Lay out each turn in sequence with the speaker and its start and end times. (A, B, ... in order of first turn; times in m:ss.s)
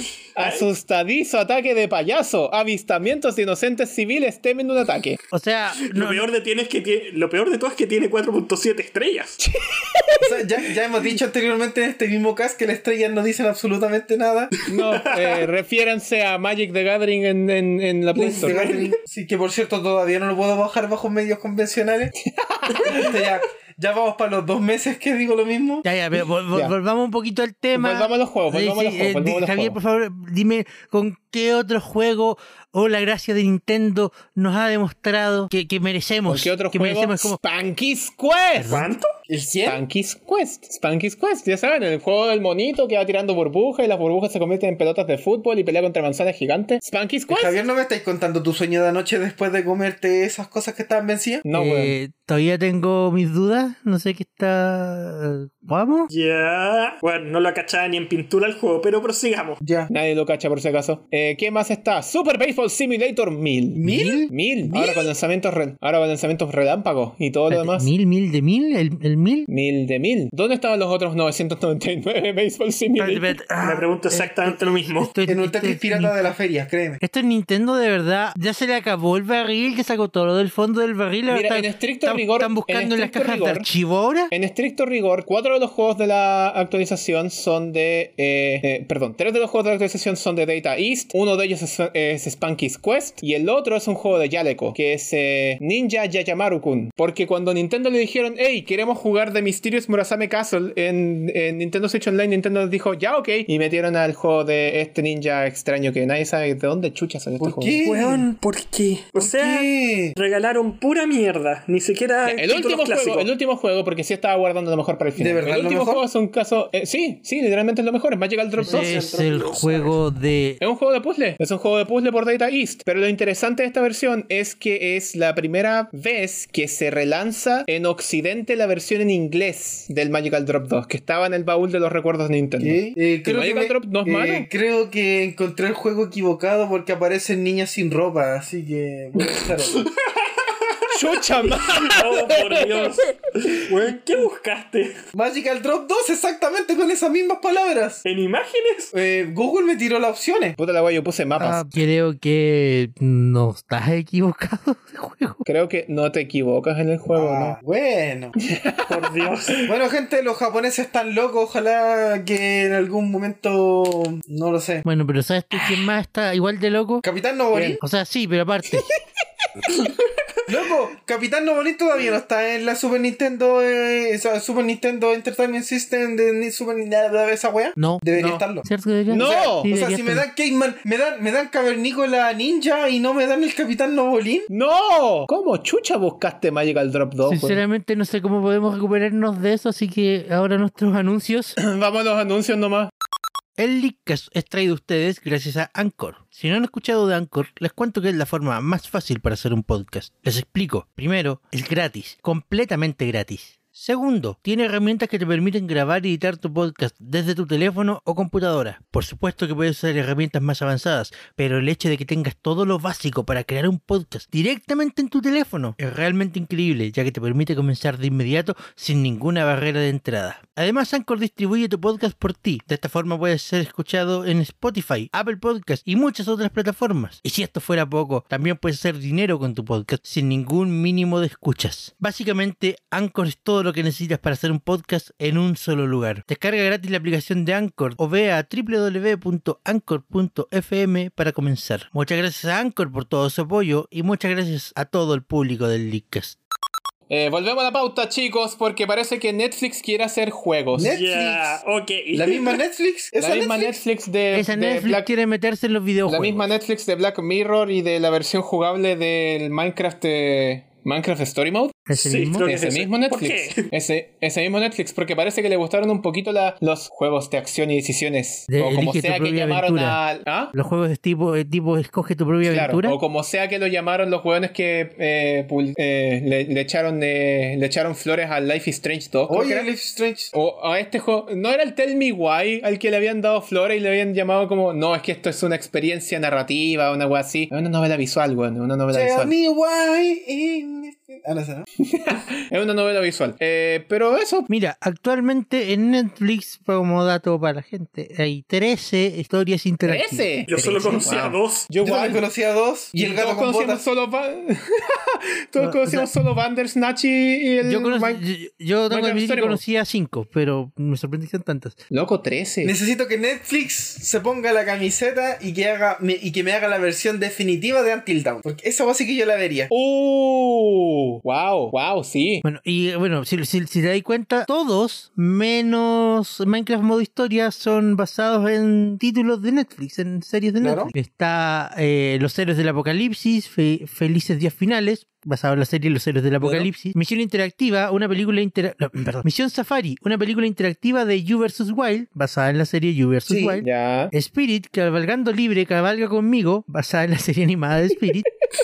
0:00.3-0:05.2 A
0:00.4-0:00.6 B
0:05.3-0:06.2 C
0:05.8-0:09.4 B
0:09.4-0:10.3 A
0:10.2-0:14.5 D
0:14.7-0:15.4 B
0:14.7-0:18.6 A
0:18.1-0:22.1 D
0:18.2-0:18.9 B
0:22.2-0:23.1 A
0:22.7-0:23.1 B
0:22.9-0:25.8 D
0:25.8-0:37.4 C
0:27.7-0:29.8 A
0:36.3-0:38.8 A
0:38.6-0:38.9 C
0:38.6-0:39.1 B
0:39.3-0:39.8 D
0:39.6-0:47.6 A
0:47.3-0:51.4 D
0:51.4-0:52.0 A
0:51.5-0:56.1 C
0:56.1-0:59.6 B
0:59.6-0:59.9 D
0:59.9-1:07.9 A
1:03.8-1:05.1 D
1:03.8-1:04.3 C
1:07.5-1:09.5 C
1:09.5-1:13.3 A
1:13.0-1:16.1 C
1:13.6-1:15.1 B
1:15.2-1:17.0 D
1:17.0-1:24.3 C
1:21.3-1:23.7 A
1:24.3-1:47.8 A
1:47.4-1:48.2 D
1:47.8-1:53.3 B
1:49.2-1:50.1 D
1:52.2-1:59.0 A
1:55.2-1:56.0 D
1:58.6-2:00.0 D
1:58.6-2:00.6 C
2:00.6-2:14.5 A
2:12.6-2:19.9 D
2:19.2-2:20.8 B
2:20.9-2:23.0 A
2:21.4-2:25.0 B
2:25.1-2:28.0 D
2:28.0-2:28.9 B
2:28.9-2:30.6 D
2:30.6-2:31.8 A
2:31.4-2:35.4 C
2:35.4-2:37.6 A
2:37.1-2:38.3 D
2:38.4-2:39.3 A
2:38.9-2:39.7 B
2:39.7-2:44.8 D
2:44.8-2:47.0 C
2:47.0-2:47.8 D
2:47.5-2:47.8 A
2:47.8-2:48.9 C
2:50.5-3:04.5 D
2:57.8-3:00.2 C
2:59.1-2:59.7 A
3:04.5-3:07.6 A
3:07.2-3:11.6 C
3:11.6-3:12.9 A
3:13.6-4:06.4 C
4:07.1-4:10.9 A
4:10.7-4:11.6 D
4:10.8-4:12.6 B
4:12.1-4:13.8 D
4:13.2-4:15.1 A
4:14.3-4:16.5 C
4:16.1-4:21.8 A
4:21.9-4:22.5 C
4:21.9-4:23.7 B
4:22.4-4:30.5 A
4:28.5-4:30.0 C
4:30.5-4:33.0 C
4:32.4-4:39.7 A
4:39.3-4:40.3 D
4:40.3-4:49.3 A
4:48.9-4:51.7 D
4:51.8-4:54.5 A
4:54.5-5:01.1 C
4:59.8-5:02.2 A
5:00.5-5:01.6 B
5:01.8-5:03.8 D
5:03.0-5:08.2 A
5:05.6-5:06.1 C
5:07.6-5:11.8 C
5:08.9-5:09.6 A
5:11.9-5:12.7 A
5:12.6-5:19.7 D
5:19.7-5:22.4 A
5:22.4-5:48.3 C
5:30.6-5:30.9 D
5:36.4-5:36.7 A
5:43.3-5:43.6 D
5:43.6-5:44.1 A